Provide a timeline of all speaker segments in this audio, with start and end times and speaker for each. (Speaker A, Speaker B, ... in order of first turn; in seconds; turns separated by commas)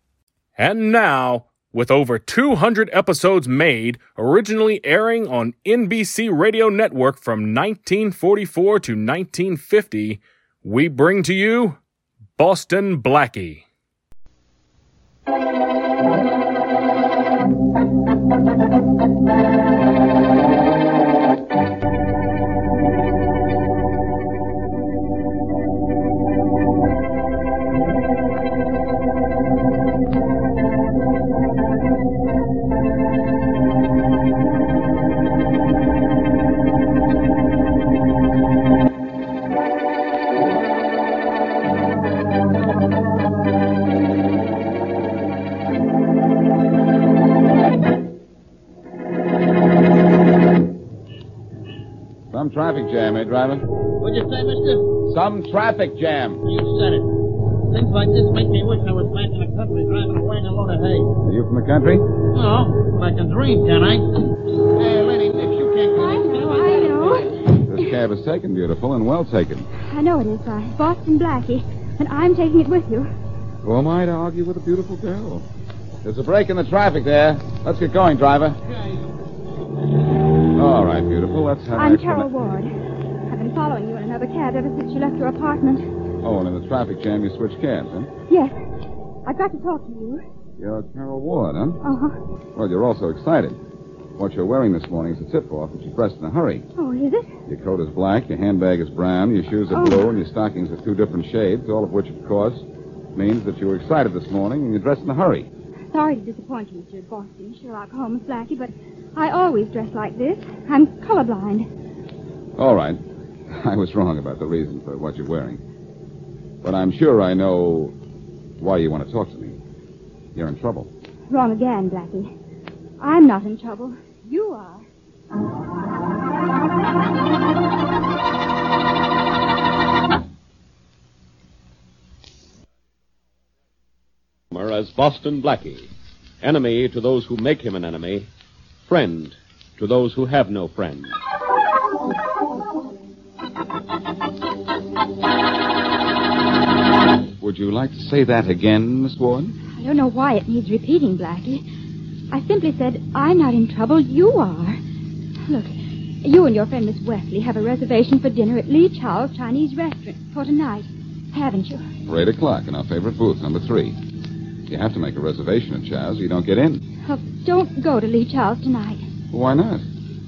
Speaker A: 0.6-11.8, Speaker A: 12.4-13.6, Speaker B: 52.3-53.7, Speaker C: 54.0-54.9, Speaker B: 55.1-56.4, Speaker C: 56.5-57.1, Speaker C: 57.7-61.1, Speaker B: 61.2-62.0, Speaker C: 62.3-64.0, Speaker C: 64.8-67.2, Speaker D: 66.0-67.4, Speaker B: 67.5-69.7, Speaker D: 69.8-73.1, Speaker B: 73.6-75.5, Speaker B: 76.0-78.6, Speaker B: 80.5-82.3, Speaker D: 81.8-82.7, Speaker D: 83.3-85.8, Speaker B: 86.2-88.1, Speaker D: 88.3-88.5, Speaker D: 89.3-90.2, Speaker B: 90.6-91.8, Speaker D: 91.8-92.2, Speaker B: 92.5-93.6, Speaker B: 94.2-96.7, Speaker D: 96.8-97.3, Speaker B: 97.5-102.6, Speaker D: 99.7-100.1, Speaker B: 103.2-105.5, Speaker D: 105.9-111.7, Speaker B: 112.6-115.6, Speaker B: 116.6-117.9, Speaker B: 118.6-119.6, Speaker B: 120.3-120.9, Speaker D: 121.3-122.3, Speaker D: 123.0-124.8, Speaker E: 134.5-135.9, Speaker E: 136.4-138.3, Speaker E: 138.9-141.1, Speaker B: 147.4-149.6, Speaker D: 149.8-151.6, Speaker D: 152.3-154.8, Speaker D: 155.5-161.8, Speaker B: 162.1-164.0, Speaker B: 164.7-166.8, Speaker D: 167.1-169.0, Speaker B: 169.3-169.8